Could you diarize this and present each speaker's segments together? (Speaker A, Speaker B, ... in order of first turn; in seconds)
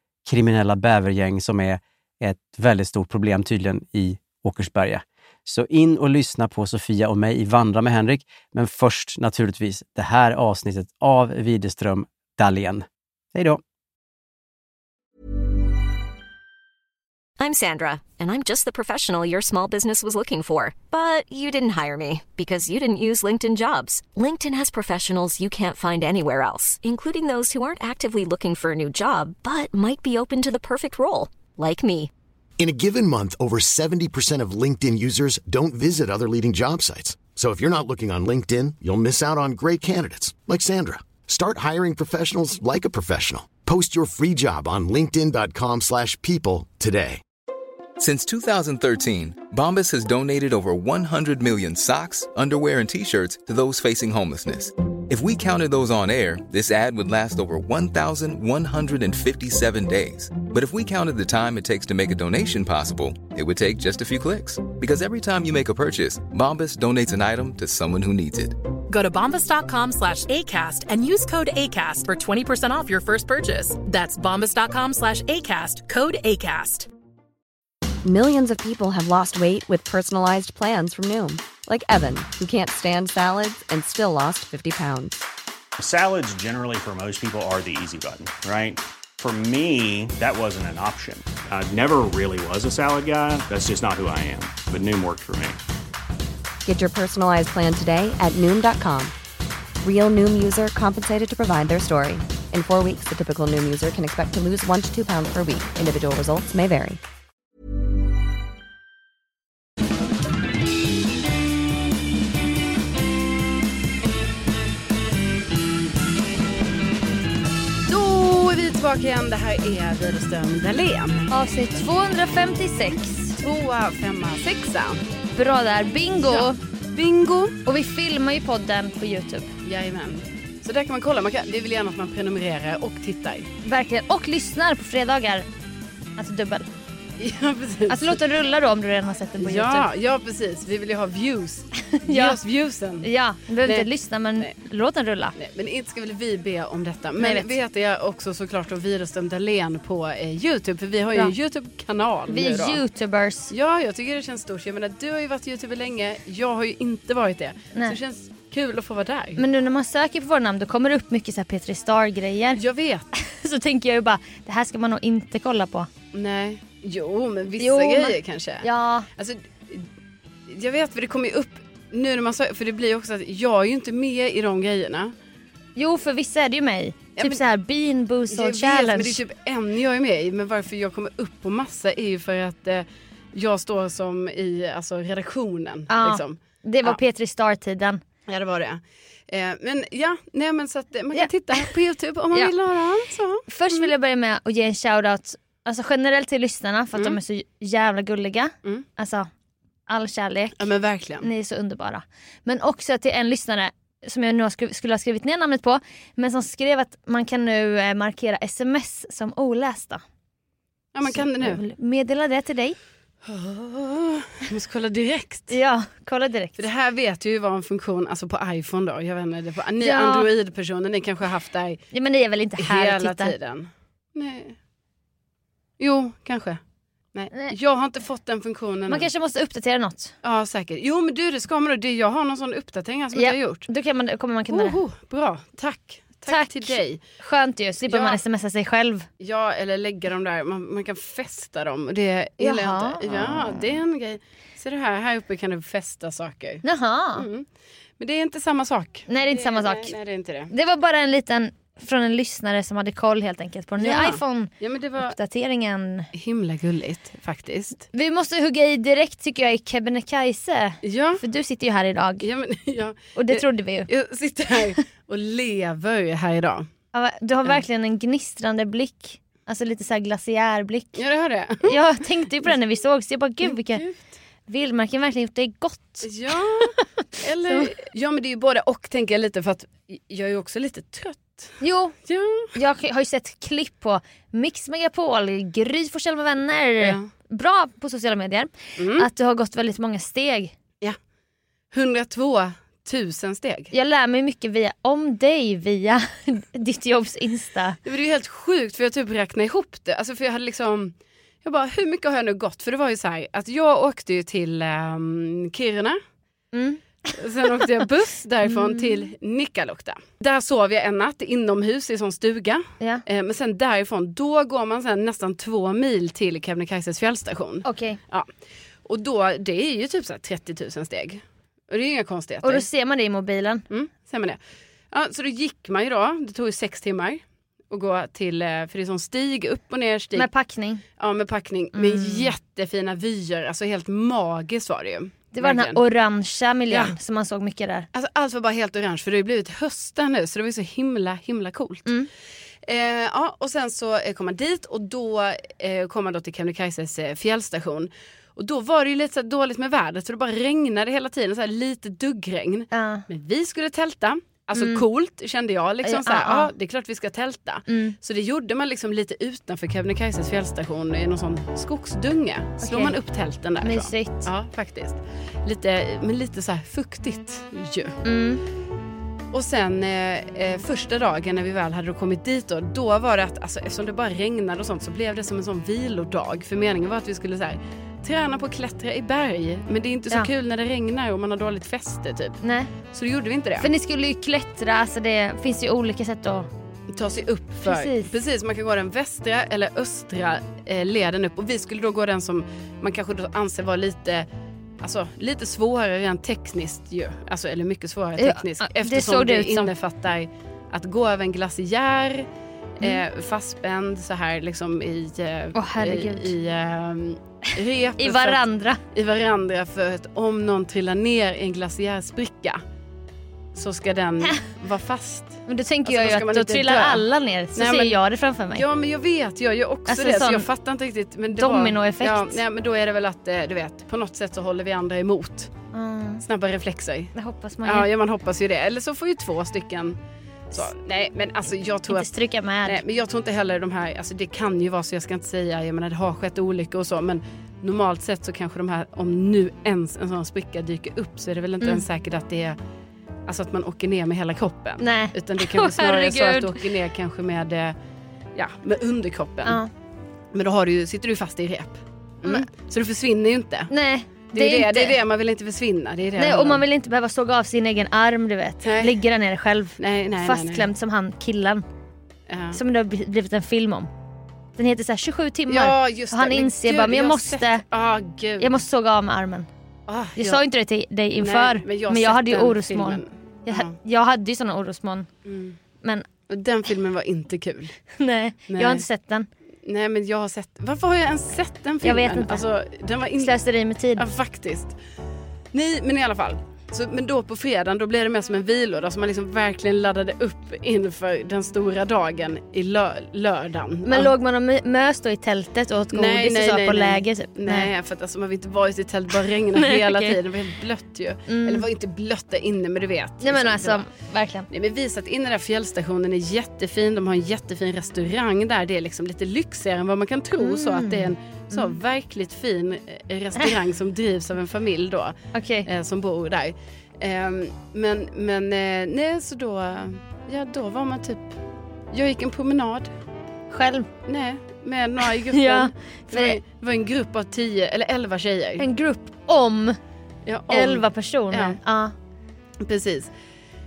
Speaker A: 0.2-13.6
Speaker B: 17.4-32.1
Speaker C: 32.6-47.2
Speaker D: 48.0-68.5
Speaker E: 68.9-76.9
Speaker F: 78.0-85.2, 96.6-99.1, 99.8-107.0
Speaker G: 85.8-95.6
Speaker H: 117.8-121.3, 123.4-125.0, 126.2-127.6, 129.6-133.5, 137.2-138.2, 139.4-143.1, 143.6-144.5, 145.3-152.8, 153.5-159.4, 162.6-163.1, 166.1-169.9, 170.5-175.1, 177.2-177.4, 178.3-187.0, 188.3-193.9, 200.6-201.3, 210.9-211.6, 213.2-215.5, 216.6-221.8, 222.6-224.6, 225.8-226.6, 227.1-229.1, 230.2-233.7, 234.5-237.0, 237.8-238.2, 239.2-246.6, 247.2-247.4, 248.0-250.5, 253.8-255.2, 256.1-257.8, 260.8-261.2, 262.2-266.6, 270.9-271.8, 273.4-274.0, 276.0-282.6, 286.8-287.1, 288.8-289.1, 291.7-293.7, 297.8-306.0, 307.1-318.3, 318.9-322.7, 323.7-324.4, 324.9-330.3, 331.0-335.8, 337.9-341.9, 342.6-368.0, 369.3-383.7, 386.9-394.3, 394.8-402.3, 402.8-412.6, 413.5-418.0, 418.5-425.5, 426.2-427.1, 427.6-430.0, 430.5-432.1, 432.6-442.6, 443.3-447.7, 448.3-449.6, 450.3-453.7, 454.3-456.6, 458.6-458.9, 459.8-460.7, 462.3-462.6, 465.5-468.6, 469.9-470.4, 471.2-473.7, 475.2-475.6, 476.3-477.8, 478.5-478.8, 479.6-483.3, 484.0-484.7, 485.5-494.1, 495.9-503.8, 504.5-521.4, 521.9-522.9, 524.0-528.6, 530.2-531.6, 532.6-533.1
Speaker I: 121.3-123.3, 125.3-126.5, 127.7-129.5, 133.6-135.4, 136.2-136.7, 137.9-139.9, 141.8-142.4, 143.0-145.3, 147.2-147.5, 152.3-153.5, 159.4-162.6, 163.1-165.9, 167.6-169.1, 175.8-179.2, 185.9-188.0, 191.1-191.7, 193.5-199.3, 199.9-200.6, 201.2-210.0, 211.1-212.8, 215.5-216.6, 219.8-220.3, 221.9-223.3, 228.9-230.1, 233.1-234.8, 236.3-239.1, 242.4-243.6, 246.6-247.2, 249.1-249.9, 250.5-256.1, 257.9-262.2, 263.1-263.9, 266.9-271.0, 271.6-273.8, 274.5-276.8, 281.6-281.9, 282.5-290.5, 293.7-297.8, 306.5-307.1, 308.4-309.0, 317.6-318.0, 322.4-323.6, 330.1-330.8, 331.7-332.3, 335.3-337.9, 352.7-353.0, 354.5-354.8, 355.8-356.5, 357.7-357.9, 362.6-362.9, 363.6-364.3, 368.0-368.4, 382.4-382.7, 383.6-386.5, 387.6-388.1, 398.2-399.7, 405.5-406.3, 408.0-408.8, 415.5-418.6, 419.9-420.5, 421.4-422.4, 425.7-426.2, 427.1-427.9, 431.9-432.8, 444.8-446.6, 449.4-449.7, 453.7-455.0, 456.2-461.6, 462.5-463.9, 464.6-467.6, 468.4-469.5, 470.2-475.1, 478.0-479.3, 481.8-482.4, 483.2-484.1, 493.9-497.7, 499.6-500.1, 501.3-501.7, 503.2-504.5, 510.4-511.8, 515.3-515.7, 523.5-523.9, 525.3-526.4, 528.6-529.8, 530.5-531.9